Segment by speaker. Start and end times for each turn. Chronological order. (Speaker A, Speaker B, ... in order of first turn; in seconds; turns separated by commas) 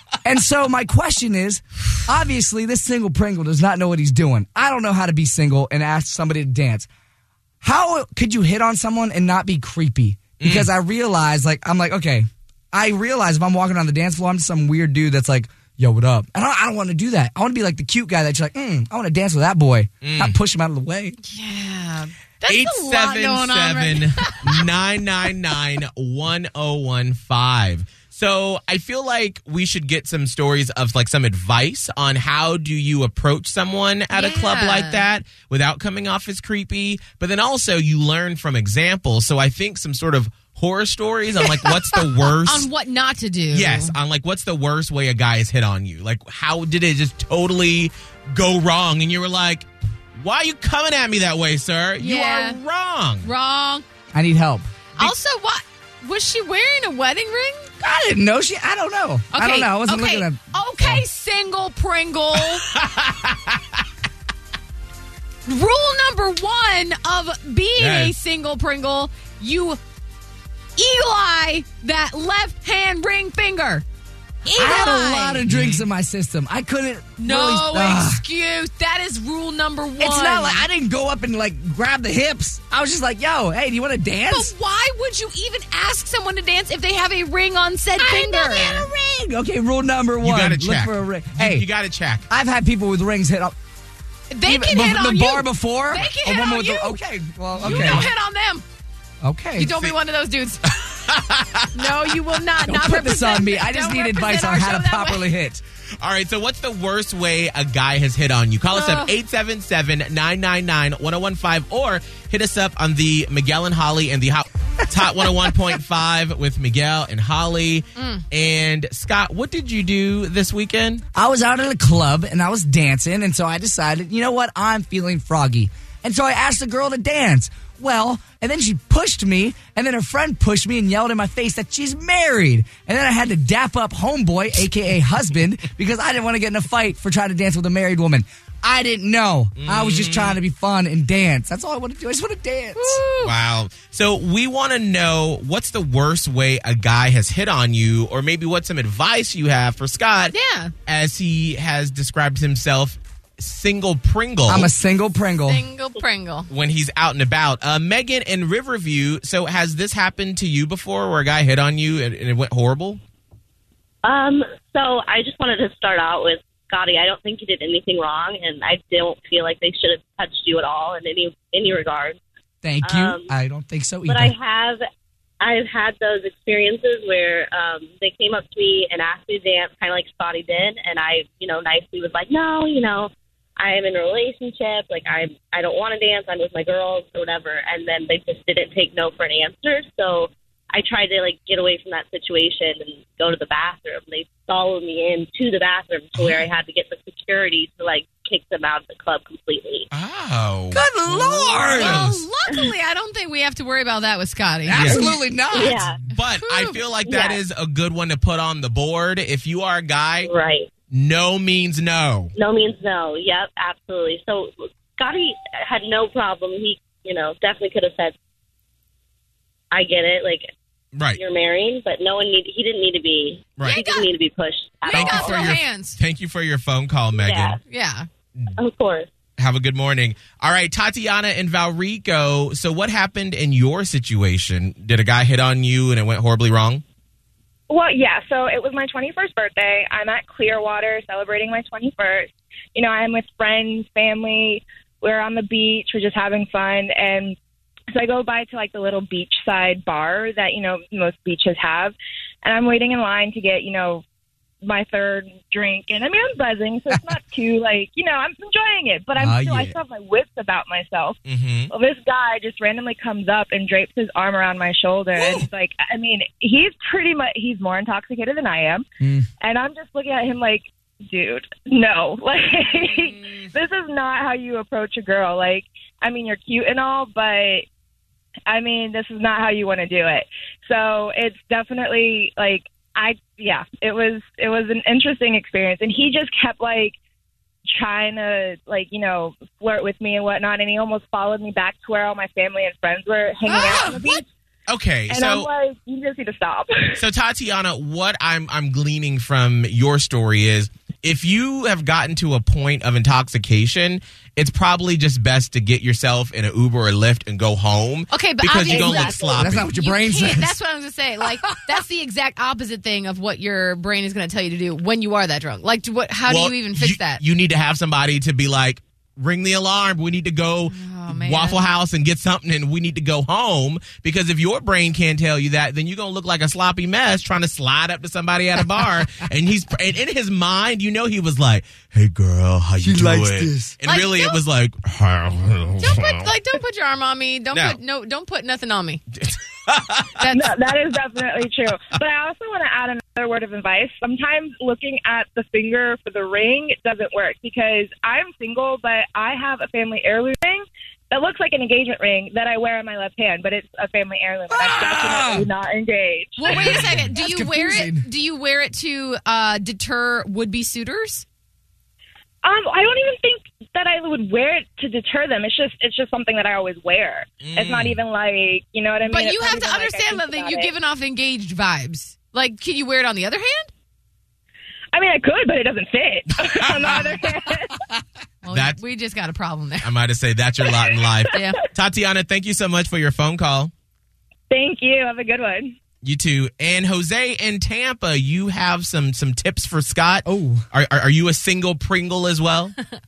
Speaker A: 0.2-6.9, Speaker A: 7.6-21.2, Speaker B: 10.4-10.7, Speaker B: 20.0-20.4, Speaker C: 21.2-24.7, Speaker B: 22.5-42.7, Speaker C: 34.1-35.1, Speaker C: 42.4-44.0, Speaker B: 43.5-49.7, Speaker B: 50.2-53.3, Speaker C: 52.0-52.6, Speaker C: 53.2-53.9, Speaker A: 54.1-54.7, Speaker C: 55.0-57.7, Speaker A: 57.8-61.0, Speaker C: 59.3-62.6, Speaker B: 62.7-63.8, Speaker C: 65.5-69.8, Speaker B: 67.8-68.2, Speaker C: 70.8-73.8, Speaker C: 74.5-75.4, Speaker A: 74.6-78.2, Speaker B: 75.5-75.9, Speaker C: 77.2-80.7, Speaker A: 80.0-84.5, Speaker C: 84.3-88.9, Speaker A: 88.0-91.7, Speaker B: 90.2-92.3, Speaker A: 92.3-93.5, Speaker C: 94.3-97.0, Speaker A: 94.5-98.1, Speaker C: 97.6-98.7, Speaker B: 97.6-98.0, Speaker A: 99.2-99.7, Speaker C: 99.6-100.7, Speaker B: 99.7-100.0, Speaker B: 100.7-101.9, Speaker C: 101.7-105.3, Speaker A: 102.7-105.6, Speaker B: 106.0-121.0, Speaker C: 108.7-109.2, Speaker A: 115.2-115.5, Speaker C: 118.0-118.2, Speaker A: 121.2-143.0, Speaker B: 139.6-140.4, Speaker C: 142.8-143.3, Speaker B: 143.2-150.3, Speaker C: 150.3-150.7, Speaker B: 150.9-154.7, Speaker A: 154.5-155.7, Speaker C: 155.5-156.5, Speaker B: 156.5-163.0, Speaker D: 164.0-172.2, Speaker A: 172.6-174.3, Speaker D: 172.9-173.3, Speaker D: 174.1-174.8, Speaker D: 175.4-199.8, Speaker B: 196.2-196.5, Speaker B: 199.9-200.8, Speaker A: 200.7-202.0, Speaker C: 201.1-205.0, Speaker B: 201.8-202.3, Speaker A: 204.7-206.0, Speaker B: 204.7-205.0, Speaker D: 205.6-206.0, Speaker B: 206.2-210.3, Speaker C: 206.2-206.8, Speaker D: 207.1-207.4, Speaker D: 210.3-210.7, Speaker B: 210.9-212.3, Speaker D: 212.4-218.2, Speaker D: 219.7-220.5, Speaker B: 220.9-221.2, Speaker D: 221.2-225.4, Speaker C: 223.6-224.1, Speaker C: 224.9-226.0, Speaker B: 224.9-227.6, Speaker D: 227.2-227.6, Speaker C: 227.6-228.1, Speaker D: 228.6-229.1, Speaker B: 229.4-236.8, Speaker E: 237.7-247.4, Speaker E: 247.9-254.0, Speaker E: 254.6-261.2, Speaker A: 259.2-259.8, Speaker B: 261.3-261.7, Speaker E: 261.7-268.9, Speaker B: 265.2-265.4, Speaker A: 269.0-269.3, Speaker E: 269.4-277.6, Speaker E: 278.5-286.9, Speaker E: 287.7-294.3, Speaker B: 293.5-295.5, Speaker E: 295.1-297.0, Speaker B: 297.0-309.7, Speaker C: 308.1-317.2, Speaker E: 308.8-309.2, Speaker A: 309.4-310.6, Speaker B: 316.3-336.3, Speaker C: 320.7-321.6, Speaker A: 332.8-333.8, Speaker C: 333.9-334.4, Speaker C: 335.8-339.0, Speaker B: 337.5-337.8, Speaker B: 339.2-340.2, Speaker E: 340.3-356.8, Speaker A: 354.5-355.5, Speaker C: 356.4-361.2, Speaker A: 356.5-358.1, Speaker E: 362.4-370.7, Speaker B: 367.4-368.0, Speaker C: 369.1-373.7, Speaker E: 374.9-377.8, Speaker B: 376.4-377.2, Speaker C: 378.4-379.9, Speaker B: 378.5-378.8, Speaker B: 379.8-383.7, Speaker E: 380.6-381.4, Speaker C: 381.3-381.6, Speaker E: 384.5-385.8, Speaker B: 386.0-392.7, Speaker A: 390.3-390.6